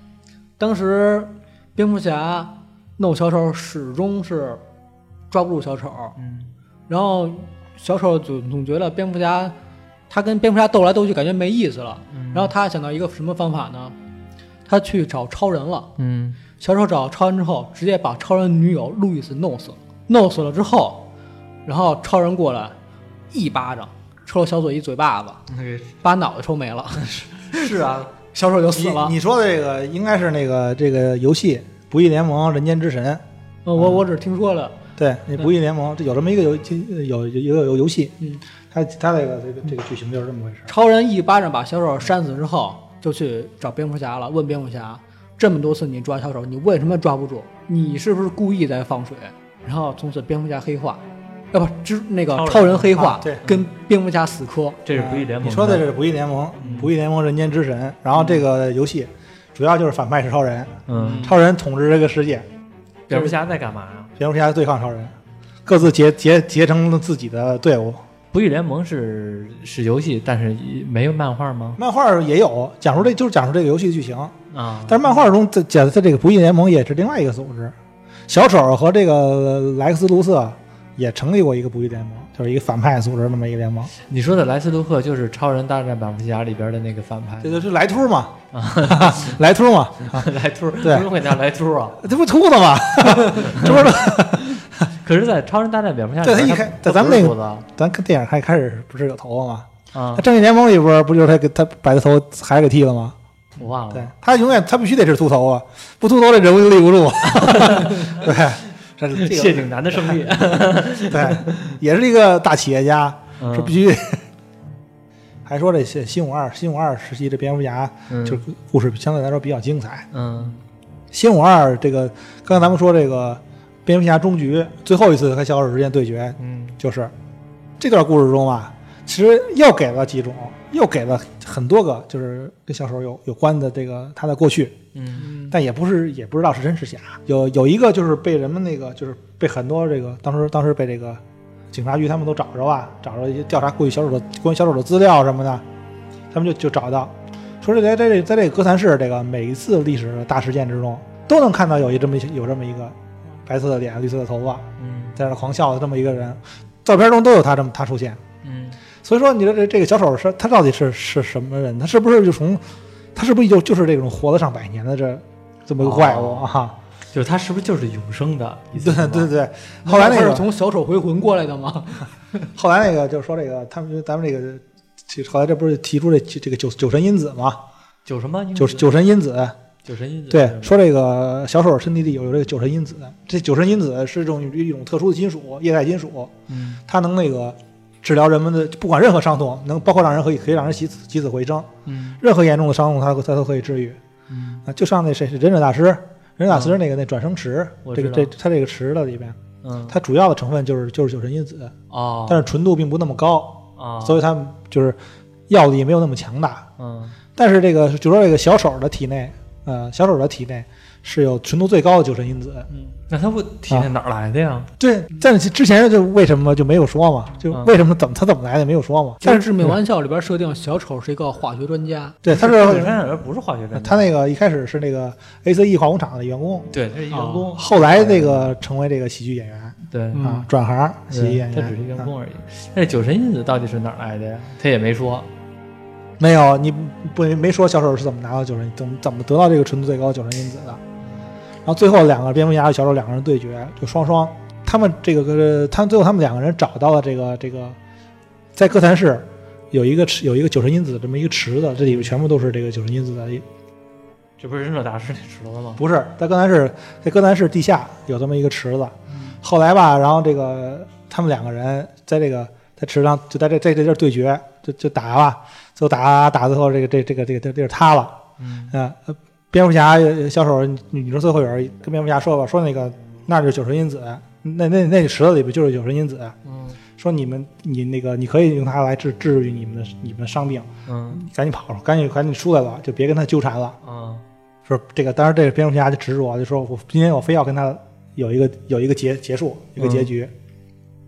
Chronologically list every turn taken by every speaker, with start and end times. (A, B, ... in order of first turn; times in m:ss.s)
0:00.6-0:04.6 A
0:05.3-0:06.2 A
0:06.2-0:06.5 B
0:06.9-0:09.5 A
0:10.1-0:14.0 A
0:12.1-0:12.5 B
0:14.6-0:15.9 A
0:16.0-0:16.4 B
0:16.6-0:21.0 A
0:21.6-0:22.8 A
0:23.3-0:25.4 A
0:25.5-0:25.9 B
0:26.0-0:29.1 A
0:27.1-0:28.1 B
0:28.7-0:33.2 C
0:33.6-0:34.8 A
0:35.0-0:38.2 C
0:38.7-0:40.7 C
0:40.7-0:54.8 A
0:52.3-0:53.6 B
0:53.0-0:53.4 C
0:54.8-0:55.8 B
0:54.9-1:02.5 C
0:56.6-0:56.9 B
0:58.2-0:58.4 B
1:00.9-1:01.3 B
1:00.9-1:01.4 A
1:03.1-1:04.1 B
1:04.2-1:05.1 C
1:05.6-1:08.0 C
1:08.3-1:11.8 B
1:11.8-1:14.3 C
1:14.5-1:15.1 B
1:14.9-1:17.7 C
1:18.3-1:23.9 C
1:24.1-1:27.6 B
1:27.4-1:30.3 C
1:28.5-1:29.4 B
1:30.1-1:32.0 B
1:30.8-1:31.1 C
1:32.0-1:34.6 C
1:33.3-1:33.9 B
1:34.6-1:37.6 B
1:36.2-1:43.2 C
1:39.9-1:40.2 B
1:43.6-1:44.1 B
1:43.9-1:50.3 C
1:47.3-1:48.3 B
1:49.2-1:51.8 B
1:51.1-1:54.2 C
1:53.4-1:53.8 B
1:55.4-2:00.1 C
1:58.1-1:58.4 B
2:00.1-2:00.6 B
2:01.1-2:07.1 C
2:06.4-2:06.8 B
2:07.8-2:14.8 C
2:14.9-2:15.3 B
2:15.2-2:15.5 A
2:15.5-2:25.6 C
2:26.3-2:38.2 C
2:34.8-2:35.2 B
2:38.4-2:38.8 B
2:39.0-2:42.6 C
2:43.1-2:46.8 C
2:45.8-2:46.5 B
2:47.1-2:49.3 B
2:48.8-2:50.5 C
2:49.8-2:52.5 A
2:52.5-2:57.6 C
2:58.0-2:58.9 B
2:58.6-2:59.6 C
2:59.8-3:00.8 B
3:00.3-3:06.3 C
3:06.5-3:06.8 B
3:06.8-3:14.0 C
3:11.8-3:12.2 B
3:14.3-3:14.6 B
3:14.6-3:21.7 C
3:16.5-3:16.8 B
3:17.8-3:18.3 B
3:19.6-3:20.0 B
3:21.9-3:22.5 B
3:22.3-3:25.0 C
3:23.8-3:24.2 B
3:25.5-3:26.6 C
3:26.8-3:27.2 B
3:27.4-3:32.7 C
3:33.1-3:34.7 B
3:34.8-3:39.5 C
3:39.2-3:42.2 A
3:42.2-3:43.0 C
3:42.3-3:44.1 B
3:43.7-3:46.7 C
3:46.7-3:48.5 B
3:47.1-3:47.4 A
3:47.5-3:52.1 C
3:49.9-3:50.3 B
3:50.1-3:50.4 A
3:51.1-3:55.3 B
3:56.2-4:00.8 C
4:01.6-4:07.8 C
4:08.5-4:13.4 C
4:14.4-4:15.8 B
4:15.8-4:28.2 C
4:28.4-4:28.7 B
4:28.7-4:36.3 C
4:36.4-4:36.8 B
4:37.0-4:43.8 C
4:40.9-4:41.2 B
4:43.8-4:44.2 B
4:44.6-4:50.3 C
4:49.8-4:50.1 B